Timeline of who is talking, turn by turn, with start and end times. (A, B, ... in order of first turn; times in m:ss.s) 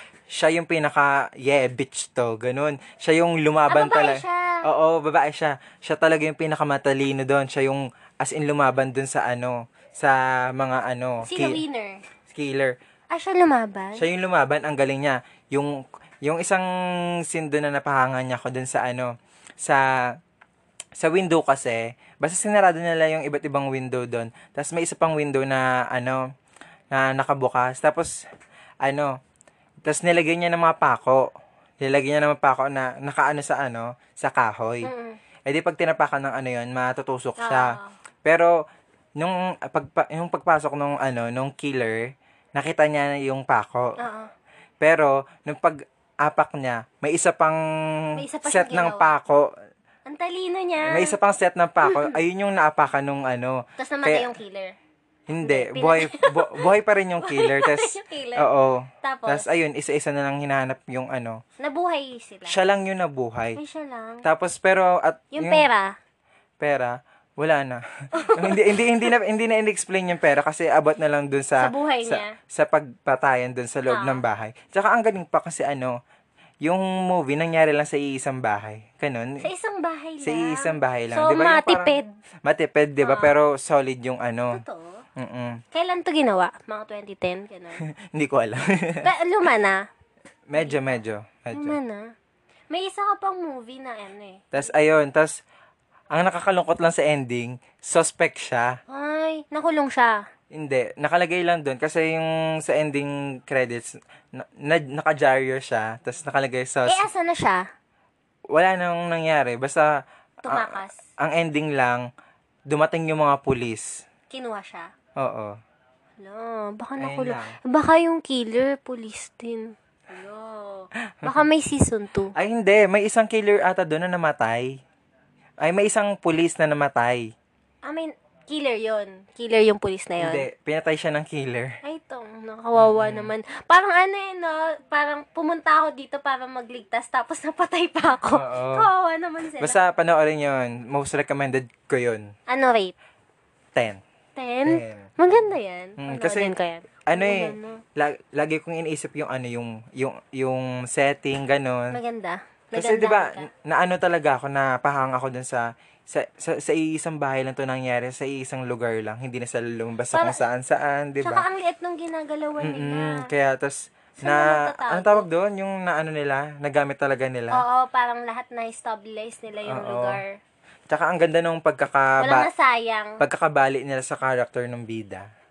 0:00.3-0:11.6 A
0:03.7-0:04.6 B
0:11.2-0:12.0 B
0:12.3-0:12.8 A
0:13.1-0:14.0 B
0:14.0-0:16.7 A
0:17.2-0:20.0 A
0:21.0-0:26.2 A
0:26.9-0:28.2 A
0:28.8-0:29.2 A
0:29.8-0:31.3 A
0:31.8-0:34.9 A
0:34.8-0:35.2 B
0:35.4-0:38.5 A
0:37.4-0:37.9 B
0:39.2-0:44.0 A
0:44.0-0:44.3 B
0:44.8-0:49.5 A
0:48.2-0:49.1 B
0:50.1-0:51.2 B
0:50.9-0:54.3 A
0:51.8-0:52.2 B
0:53.8-0:54.8 B
0:55.3-1:01.4 A
0:55.4-0:58.5 B
0:59.0-0:59.5 B
1:01.6-1:02.6 B
1:02.5-1:03.6 A
1:03.6-1:04.2 B
1:04.2-1:05.7 A
1:05.3-1:06.0 B
1:06.6-1:16.0 A
1:08.1-1:09.1 B
1:11.6-1:12.4 B
1:13.9-1:14.2 B
1:16.6-1:19.4 A
1:19.4-1:22.0 B
1:20.2-1:24.6 A
1:23.0-1:23.3 B
1:24.5-1:25.0 B
1:25.2-1:25.6 A
1:25.7-1:27.8 B
1:27.8-1:29.1 A
1:29.0-1:29.8 B
1:30.5-1:31.8 A
1:31.5-1:32.1 B
1:32.7-1:34.5 B
1:34.5-1:35.4 A
1:36.1-1:38.8 A
1:38.9-1:40.2 B
1:40.5-1:47.1 A
1:46.8-1:47.6 B
1:48.5-1:49.9 A
1:50.4-1:51.0 B
1:50.5-1:52.0 A
1:52.7-1:54.0 A
1:54.3-1:54.9 B
1:55.2-1:55.6 A
1:56.2-2:02.3 B
1:57.0-1:57.6 A
2:01.1-2:01.4 A
2:02.3-2:04.8 A
2:05.6-2:07.3 A
2:07.8-2:10.4 B
2:10.2-2:11.8 A
2:11.8-2:19.8 B
2:12.8-2:13.3 A
2:18.3-2:18.9 A
2:19.6-2:22.3 A
2:22.5-2:22.9 B
2:23.7-2:24.0 A
2:24.4-2:27.8 B
2:24.6-2:26.5 A
2:27.1-2:32.0 A
2:31.9-2:33.5 B
2:32.7-2:41.4 A
2:40.1-2:40.4 B
2:41.2-2:43.3 B
2:42.6-2:47.6 A
2:44.2-2:45.3 B
2:47.5-2:50.4 B
2:49.6-2:50.2 A
2:50.9-2:52.5 A
2:52.2-2:53.2 B
2:53.2-2:55.3 A